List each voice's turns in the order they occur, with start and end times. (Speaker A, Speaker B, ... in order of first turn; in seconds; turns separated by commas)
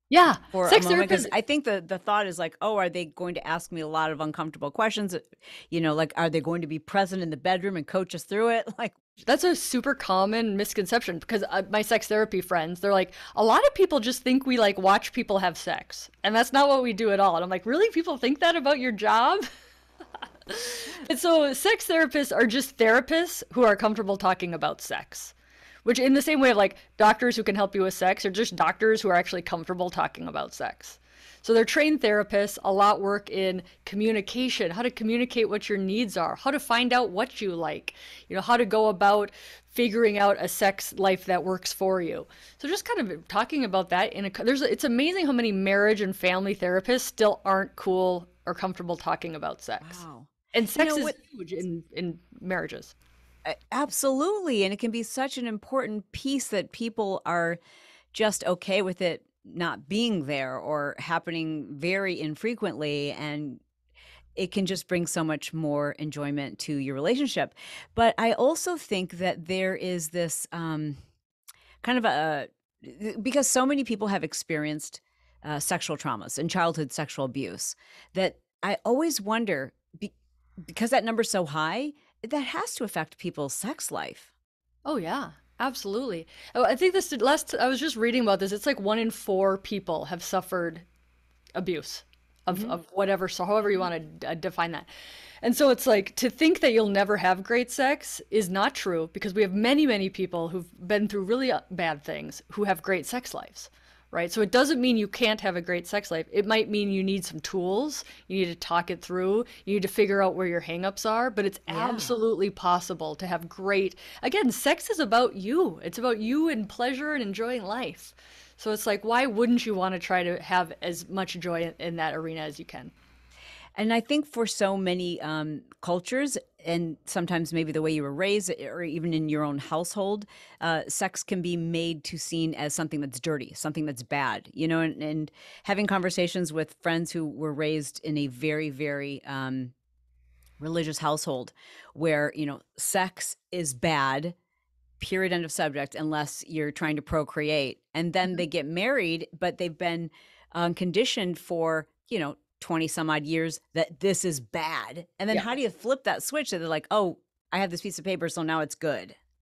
Speaker A: 0.1-1.3, Speaker B: 0.4-8.9, Speaker A: 9.2-19.5, Speaker A: 20.5-25.3, Speaker A: 25.8-50.0, Speaker B: 49.8-51.1, Speaker A: 50.5-52.9, Speaker B: 53.4-57.6, Speaker B: 58.1-63.6, Speaker B: 64.3-71.0, Speaker B: 71.8-84.3, Speaker A: 84.8-90.8, Speaker A: 91.5-94.9, Speaker B: 92.5-92.8, Speaker A: 95.4-122.9, Speaker B: 111.7-112.1, Speaker B: 123.8-139.7, Speaker B: 140.6-144.3, Speaker B: 145.0-159.2